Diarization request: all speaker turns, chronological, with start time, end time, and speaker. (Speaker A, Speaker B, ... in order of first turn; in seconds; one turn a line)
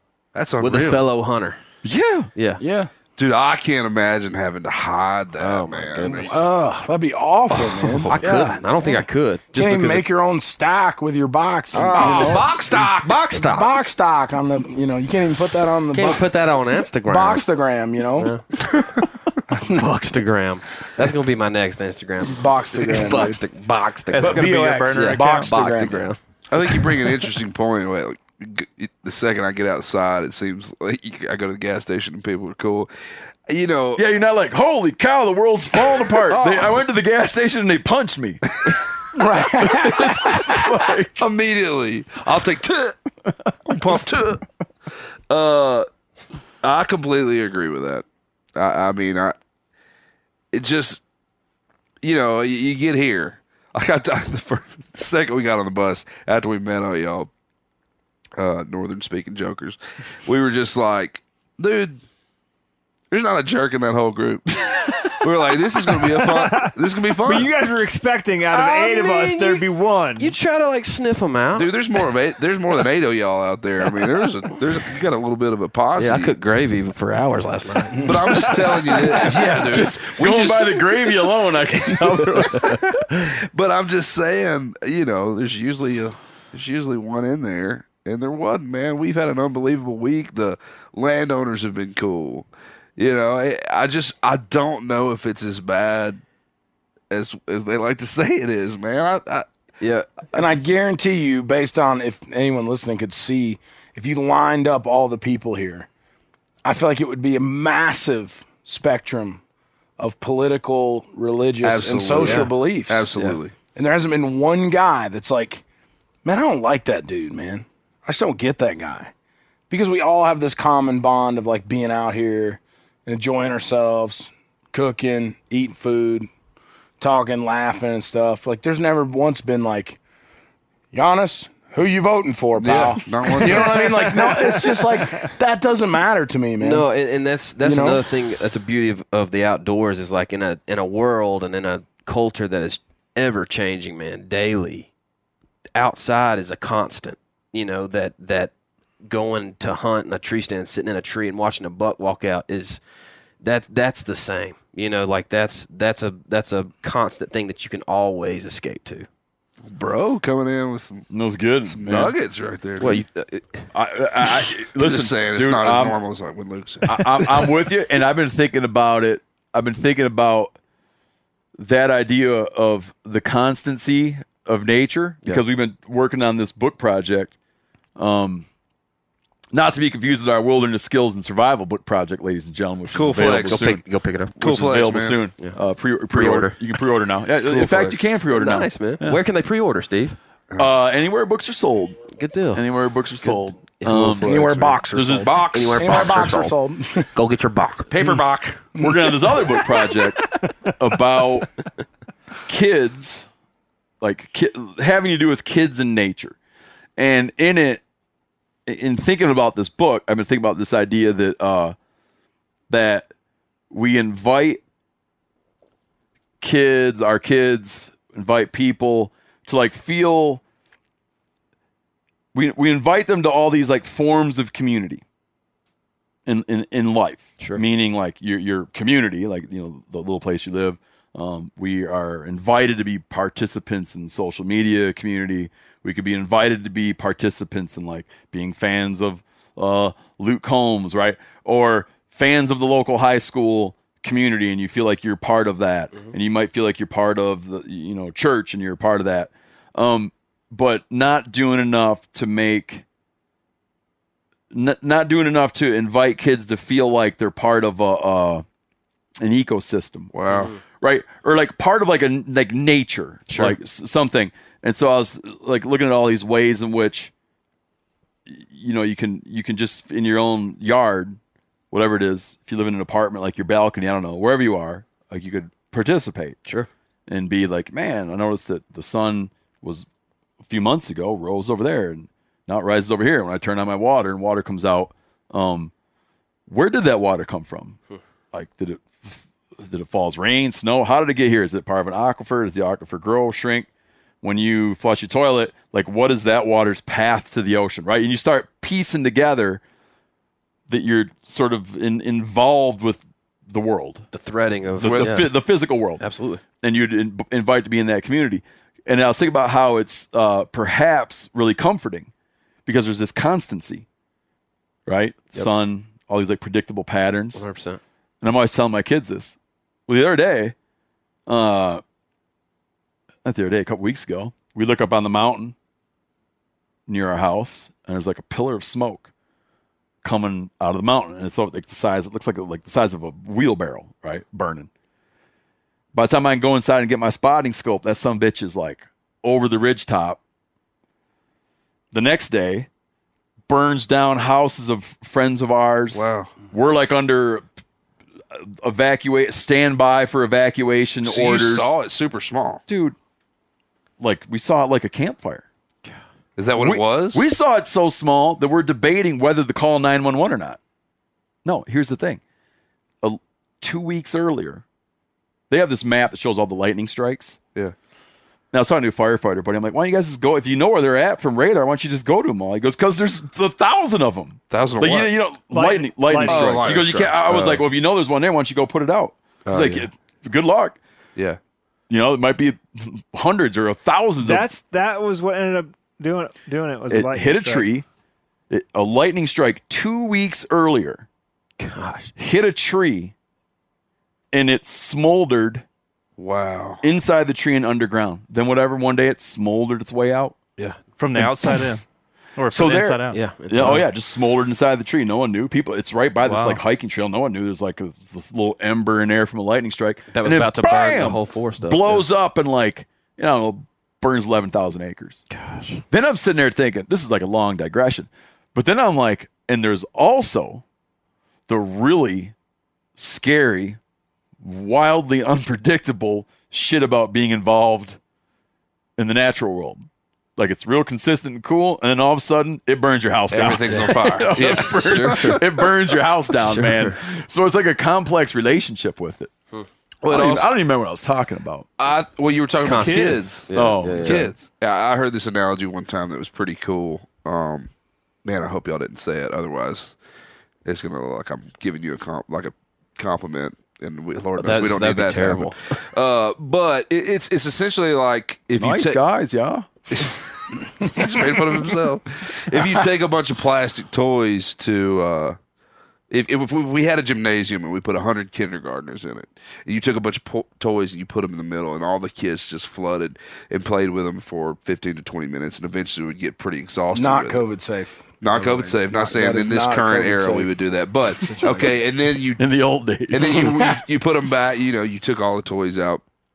Speaker A: 0.3-1.1
Speaker B: 0.6-1.6
Speaker C: 1.8-2.3
Speaker B: 2.4-2.6
Speaker D: 2.6-2.9
Speaker A: 3.2-6.4
Speaker B: 5.4-6.4
Speaker D: 6.3-8.2
Speaker B: 8.1-10.1
Speaker C: 8.2-8.6
Speaker D: 9.5-12.5
Speaker A: 11.7-13.2
Speaker B: 11.8-13.7
Speaker D: 13.4-16.3
Speaker B: 15.9-17.4
Speaker D: 17.1-18.3
Speaker B: 18.2-18.4
Speaker D: 19.5-19.9
Speaker B: 19.7-27.1
Speaker D: 22.2-23.4
Speaker E: 24.1-25.5
Speaker D: 24.2-26.1
Speaker A: 26.5-32.9
Speaker A: 33.5-34.0
Speaker C: 34.0-38.4
Speaker A: 35.9-36.8
Speaker D: 39.1-40.4
Speaker C: 39.6-41.2
Speaker A: 41.2-43.0
Speaker A: 43.7-44.4
Speaker A: 45.3-45.9
Speaker A: 46.6-48.0
Speaker A: 48.6-49.4
Speaker A: 50.5-51.0
Speaker A: 52.0-57.3
Speaker A: 58.4-62.0
Speaker A: 63.1-67.5
Speaker F: 66.1-70.3
Speaker B: 68.5-71.8
Speaker A: 71.5-76.3
Speaker B: 76.0-78.5
Speaker D: 77.9-78.5
Speaker A: 78.0-81.0
Speaker C: 79.7-83.0
Speaker A: 83.5-96.2
Speaker A: 97.1-99.5
Speaker B: 99.8-100.1
Speaker D: 100.3-105.9
Speaker D: 106.6-109.4
Speaker D: 110.0-113.1
Speaker A: 111.6-113.5
Speaker B: 112.2-112.5
Speaker D: 113.8-115.6
Speaker D: 116.2-119.1
Speaker D: 119.7-126.3
Speaker D: 127.0-130.0
Speaker D: 130.9-136.9
Speaker A: 132.6-134.2
Speaker B: 136.6-144.9
Speaker D: 137.6-138.1
Speaker B: 145.8-148.5
Speaker B: 149.1-152.8
Speaker B: 153.4-159.1
Speaker A: 159.7-161.1
Speaker C: 161.1-162.1
Speaker A: 161.7-163.0
Speaker B: 162.8-163.7
Speaker C: 163.7-166.0
Speaker A: 164.8-167.5
Speaker C: 166.8-170.5
Speaker C: 171.6-177.3
Speaker C: 178.0-178.5
Speaker C: 179.5-183.8
Speaker A: 182.9-183.7
Speaker B: 183.2-184.8
Speaker C: 184.4-189.2
Speaker A: 184.4-185.2
Speaker B: 186.1-186.7
Speaker B: 187.5-190.2
Speaker C: 190.6-192.0
Speaker B: 192.1-192.6
Speaker C: 192.5-195.4
Speaker B: 193.2-194.8
Speaker D: 194.2-197.1
Speaker A: 195.2-196.3
Speaker B: 195.5-196.6
Speaker B: 197.2-198.0
Speaker A: 197.9-198.6
Speaker D: 198.8-199.2
Speaker C: 198.8-201.5
Speaker C: 202.5-203.3
Speaker C: 204.0-206.4
Speaker C: 207.0-207.8
Speaker C: 208.7-211.8
Speaker C: 212.7-213.1
Speaker C: 213.7-214.6
Speaker C: 216.4-220.4
Speaker C: 222.3-225.0
Speaker C: 226.3-252.8
Speaker C: 254.5-258.4
Speaker C: 259.2-260.1
Speaker A: 260.1-260.6
Speaker B: 260.3-260.6
Speaker C: 260.8-267.1
Speaker B: 263.3-263.6
Speaker C: 268.3-271.2
Speaker C: 271.7-276.4
Speaker C: 277.1-279.9
Speaker C: 280.4-285.7
Speaker C: 286.5-287.8
Speaker C: 288.3-293.7
Speaker C: 294.2-299.6
Speaker C: 300.7-304.1
Speaker B: 304.1-305.3
Speaker C: 304.8-306.0
Speaker A: 304.8-305.2
Speaker B: 306.0-306.4
Speaker C: 306.6-312.1
Speaker C: 312.7-313.9
Speaker C: 314.9-317.4
Speaker B: 317.4-317.8
Speaker C: 318.2-319.4
Speaker C: 319.9-320.6
Speaker C: 321.3-321.8
Speaker C: 323.2-325.6
Speaker C: 326.9-329.1
Speaker C: 330.0-334.7
Speaker C: 335.9-340.2
Speaker C: 341.9-342.7
Speaker C: 343.5-347.4
Speaker A: 345.9-346.3
Speaker C: 348.3-351.7
Speaker A: 351.0-352.6
Speaker C: 352.7-353.0
Speaker C: 354.0-355.4
Speaker A: 356.4-357.2
Speaker C: 356.6-360.6
Speaker C: 361.4-362.2
Speaker C: 363.0-364.6
Speaker C: 365.5-367.4
Speaker C: 368.5-380.8
Speaker A: 374.5-375.1
Speaker F: 375.5-376.8
Speaker A: 376.2-377.6
Speaker A: 379.5-379.9
Speaker C: 381.9-384.5
Speaker F: 384.2-387.7
Speaker C: 386.9-387.9
Speaker C: 388.5-391.1
Speaker B: 391.6-392.1
Speaker C: 392.2-393.1
Speaker C: 394.3-395.6
Speaker A: 396.2-396.8
Speaker C: 396.8-400.4
Speaker E: 401.0-401.8
Speaker E: 402.4-403.9
Speaker C: 402.5-415.2
Speaker B: 403.1-403.9
Speaker E: 406.2-406.6
Speaker B: 410.1-412.1
Speaker B: 415.3-415.8
Speaker C: 415.9-420.6
Speaker C: 421.5-422.3
Speaker C: 423.0-423.8
Speaker C: 424.4-428.0
Speaker C: 429.0-429.9
Speaker C: 430.4-439.3
Speaker A: 433.3-435.4
Speaker B: 433.7-435.4
Speaker B: 436.4-437.0
Speaker A: 440.0-440.5
Speaker C: 440.1-441.7
Speaker A: 441.8-443.5
Speaker B: 442.6-444.3
Speaker C: 442.8-444.3
Speaker A: 444.0-447.7
Speaker A: 448.2-450.0
Speaker A: 450.6-459.0
Speaker B: 454.4-455.8
Speaker C: 458.6-459.7
Speaker A: 459.9-465.4
Speaker A: 466.1-477.4
Speaker D: 476.9-481.8
Speaker A: 478.2-482.4
Speaker C: 482.4-483.5
Speaker A: 483.1-486.0
Speaker D: 483.3-483.8